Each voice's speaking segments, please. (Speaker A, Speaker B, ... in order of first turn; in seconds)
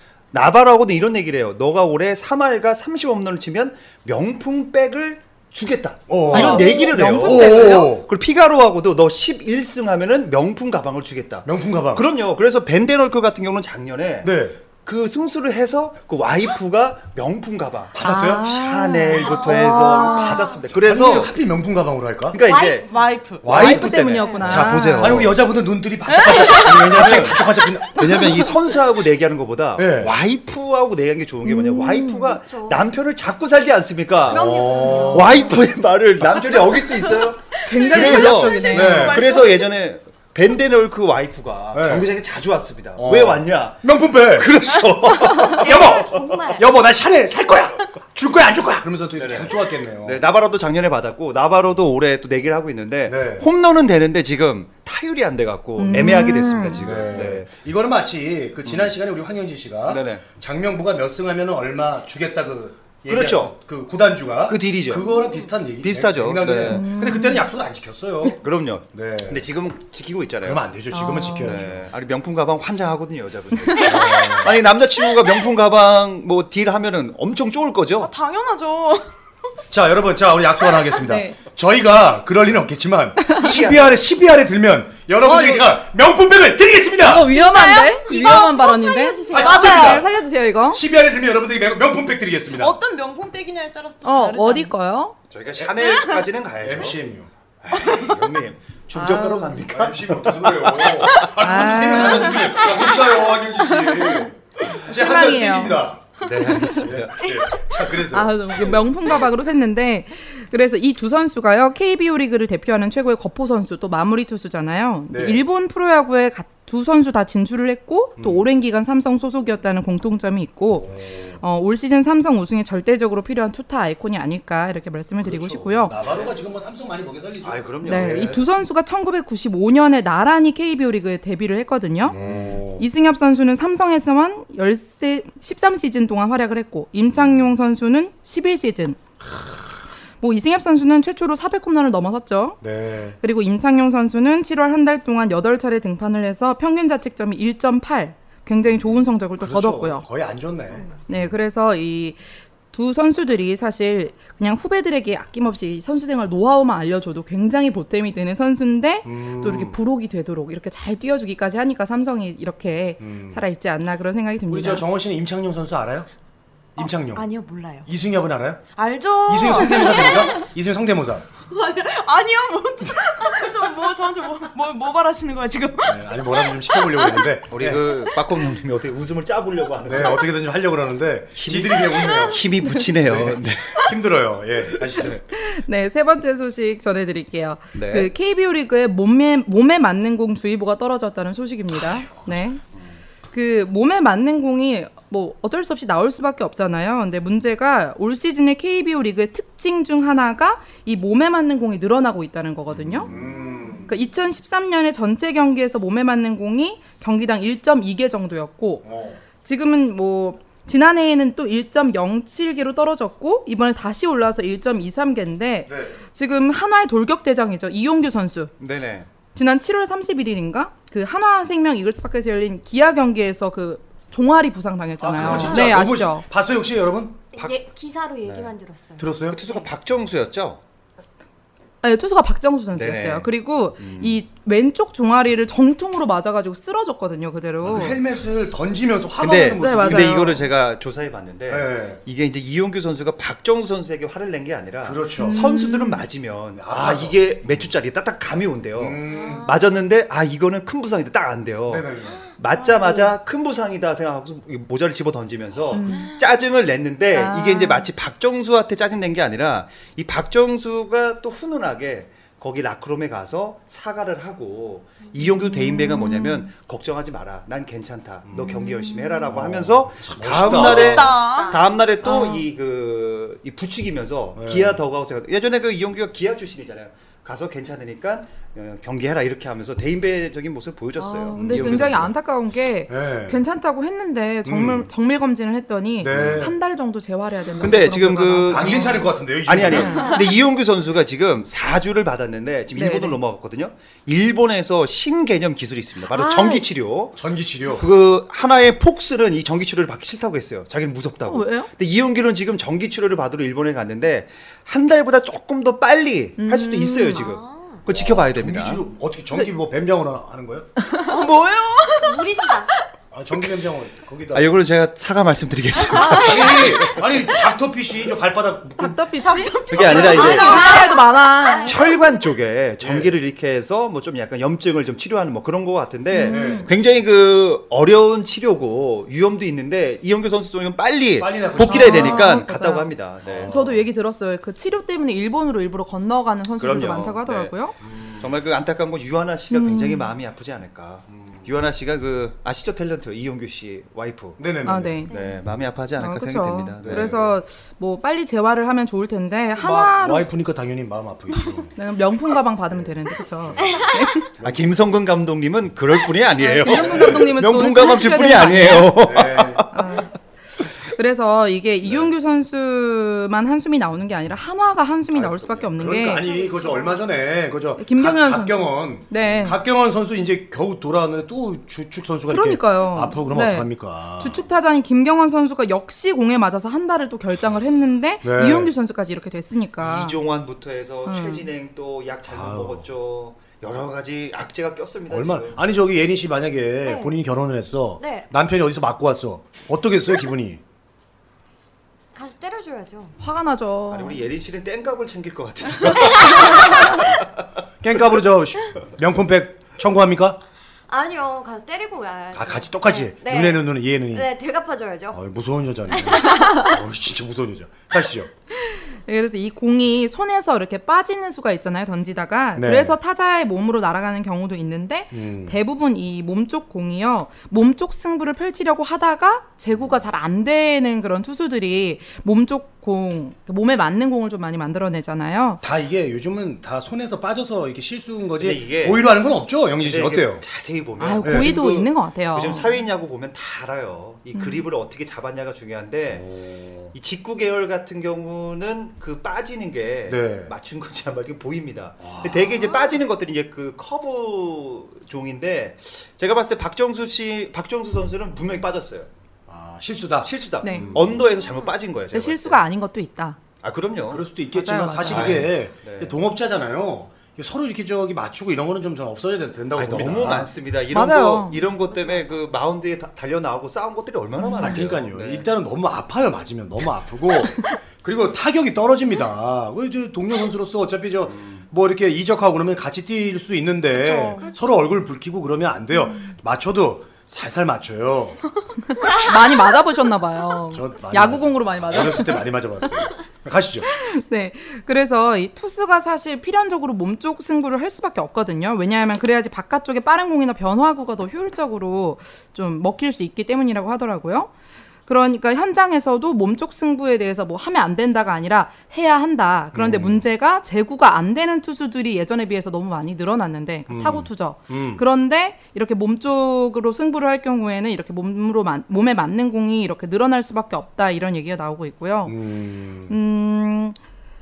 Speaker A: 0.3-21.3, 22.3-22.9, 23.4-25.4, 26.4-46.0, 49.2-57.5, 58.6-58.9, 59.9-60.2, 63.1-63.5, 64.5-65.2, 65.8-66.9, 68.4-70.7, 71.4-78.1, 83.4-84.0, 95.3-97.0, 97.6-101.8, 106.2-107.3, 127.4-128.4, 177.5-180.3, 181.4-183.8, 184.9-185.2, 187.8-188.1, 202.7-203.3, 218.6-219.1, 225.2-225.7, 229.3-230.6, 232.7-234.2, 239.2-282.1, 286.1-286.5, 287.6-308.8, 314.3-317.1, 319.7-320.7, 321.6-333.5, 336.6-337.5, 338.2-344.4, 345.1-347.2, 354.4-360.0, 365.2-365.6, 379.8-385.6, 393.9-397.2, 428.4-429.2, 429.8-436.3, 436.9-449.1, 450.2-452.6, 453.6-454.2, 455.1-456.1, 459.8-465.5, 471.3-471.6
Speaker B: 6.1-8.1, 11.4-12.1, 14.2-14.6, 17.9-18.6, 20.7-22.4, 23.4-28.3, 29.8-30.1, 34.3-35.5, 38.7-39.3, 41.7-42.1, 43.0-44.5, 45.5-50.2, 53.1-53.5, 56.8-68.4, 68.9-69.5, 70.4-71.9, 73.8-74.6, 79.7-87.3, 89.3-90.1, 90.7-92.8, 95.5-96.0, 96.6-97.3, 99.7-109.3, 115.1-115.4, 118.2-118.5, 120.7-121.4, 125.2-128.4, 132.1-132.9, 139.2-139.7, 142.6-143.2, 149.4-151.2, 159.1-159.8, 163.0-163.5, 164.5-166.1, 166.8-167.3, 167.8-168.7, 169.2-171.3, 175.8-178.0, 179.8-182.4, 183.0-185.2, 191.7-192.5, 203.0-203.9, 208.8-209.2, 215.7-216.0, 225.0-227.2, 229.0-229.4, 237.6-240.4, 241.5-242.0, 244.8-245.4, 246.5-247.7, 248.8-249.5, 251.7-252.2, 268.3-268.6, 269.3-271.2, 274.4-274.8, 281.3-282.1, 282.9-283.4, 284.4-284.9, 286.0-286.6, 288.5-290.1, 297.2-297.9, 307.9-310.7, 313.1-314.6, 316.1-319.0, 322.8-323.2, 326.3-326.7, 331.2-332.4, 333.2-333.9, 337.8-338.3, 341.1-341.5, 344.4-345.0, 346.8-347.4, 349.6-351.8, 352.7-353.8, 354.4-354.7, 356.7-357.4, 358.8-359.7, 365.5-374.5, 378.2-378.7, 382.3-382.9, 385.1-390.6, 397.8-400.4, 402.3-404.3, 405.1-408.3, 412.6-413.0, 415.1-415.6, 425.6-430.4, 431.2-431.6, 436.1-436.9, 440.1-440.5, 442.0-442.6, 449.5-451.3, 454.1-460.5, 464.6-478.4, 480.7-483.9, 499.7-500.2, 503.9-505.0, 512.3-513.2
Speaker C: 6.3-7.9, 18.0-20.5, 23.5-25.3, 28.0-28.5, 31.4-32.4, 37.6-39.2, 55.8-57.1, 66.6-67.5, 70.9-71.6, 81.0-81.4, 85.2-85.7, 87.0-90.8, 94.0-95.2, 98.9-99.6, 101.4-102.7, 103.6-105.8, 108.1-126.0, 127.8-132.2, 132.8-139.0, 140.2-142.6, 143.2-150.1, 151.1-152.2, 152.7-164.9, 185.2-192.6, 193.3-203.1, 203.9-208.9, 209.4-218.5, 219.3-226.3, 231.8-238.0, 239.6-240.5, 245.2-246.1, 255.7-256.1, 257.1-257.9, 265.4-266.5, 272.1-272.4, 281.0-289.0, 289.6-290.2, 292.8-293.2, 296.1-296.7, 301.3-301.7, 306.4-307.3, 310.9-311.1, 315.9-316.6, 318.8-321.8, 326.1-326.7, 331.6-332.9, 333.4-337.8, 339.5-340.1, 344.6-345.1, 346.0-350.3, 351.8-354.3, 356.4-359.0, 359.7-360.1, 360.8-366.3, 367.8-369.6, 372.3-380.2, 381.1-381.5, 393.2-394.2, 408.6-425.6, 431.0-432.7, 434.3-434.6, 450.6-450.9, 452.1-453.4, 454.5-455.4, 460.9-461.6, 464.4-464.8, 476.0-476.3, 479.0-482.5, 483.9-494.5, 495.1-512.4, 513.1-514.0
Speaker D: 6.5-6.9, 19.1-20.6, 22.4-22.9, 24.1-24.6, 32.4-32.8, 34.3-35.6, 45.4-46.7, 87.3-89.8, 227.3-229.7, 249.1-249.6, 271.1-272.1, 307.1-307.8, 312.0-312.7, 319.8-322.2, 345.1-345.4, 366.2-367.0, 386.8-387.1, 388.0-388.3, 392.1-393.2, 400.9-405.2, 442.7-443.0, 451.3-451.8, 461.9-462.3
Speaker E: 22.7-23.7, 37.6-39.7, 78.0-79.1, 89.3-90.0, 92.5-94.7, 97.8-98.2, 166.8-167.9, 168.8-170.4, 171.4-177.3, 255.9-256.2, 270.5-272.3, 311.0-312.5, 319.2-321.0, 473.9-474.5